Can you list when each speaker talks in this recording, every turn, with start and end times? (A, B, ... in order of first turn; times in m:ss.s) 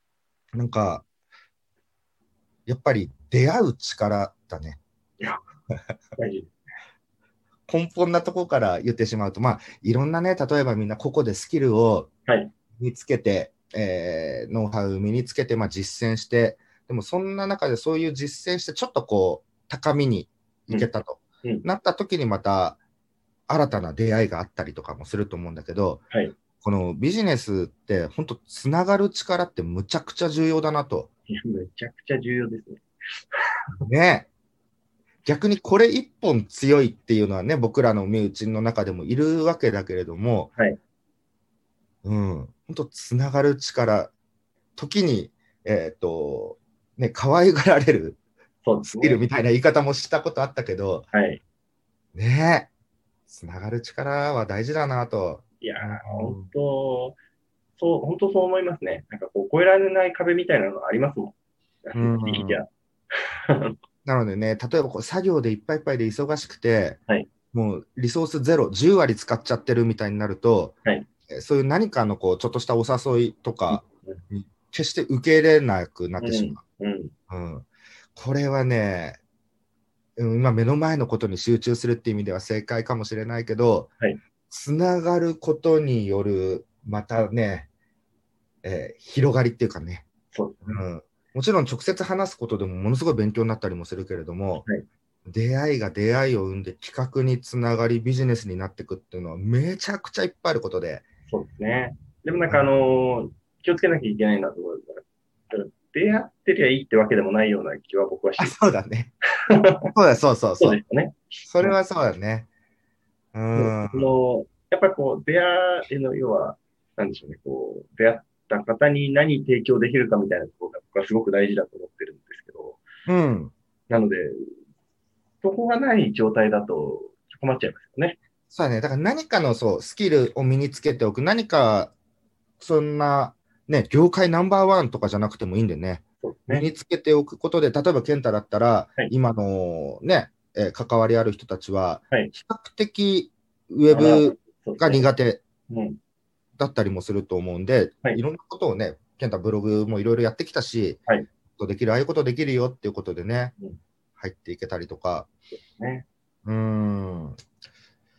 0:00.5-0:01.0 A
0:02.7-0:04.8 A
0:06.2-0:06.5 B
0:07.7-0:12.1 A
0:12.3-0:12.5 B
0:12.8-0:22.8 A
0:23.5-0:26.0 A
0:26.1-0:26.4 B
0:26.6-0:31.1 A
0:31.3-0:33.4 B
0:33.8-0:34.3 A
0:35.2-0:40.5 A
0:42.0-0:44.1 A
0:44.8-0:48.2 A
0:48.6-0:49.2 B
0:48.8-0:51.1 A
0:51.1-0:51.4 B
0:52.1-0:52.7 A
0:53.3-0:56.5 A
0:55.6-0:57.2 B
0:57.8-1:01.3 B
1:01.8-1:03.8 B
1:01.9-1:02.6 A
1:04.0-1:07.0 A
1:07.5-1:10.8 A
1:11.3-1:16.6 A
1:13.7-1:14.2 B
1:16.2-1:17.1 B
1:17.3-1:19.2 A
1:20.2-1:23.9 A
1:24.5-1:27.7 A
1:28.6-1:30.0 A
1:30.3-1:30.8 B
1:30.6-1:34.6 A
1:35.2-1:41.0 A
1:41.3-1:48.6 B
1:48.4-1:49.1 A
1:49.5-1:49.9 B
1:49.9-1:50.8 A
1:50.6-1:51.8 B
1:51.5-1:52.5 A
1:53.3-1:54.2 A
1:53.5-2:02.8 B
2:03.1-2:03.5 A
2:03.9-2:04.6 B
2:05.4-2:08.2 B
2:08.5-2:11.9 A
2:12.6-2:25.4 A
2:16.2-2:16.7 B
2:23.9-2:25.1 B
2:25.7-2:26.0 B
2:26.6-2:31.0 A
2:31.6-2:33.5 A
2:34.2-2:35.3 A
2:35.8-2:36.0 B
2:36.4-2:37.4 A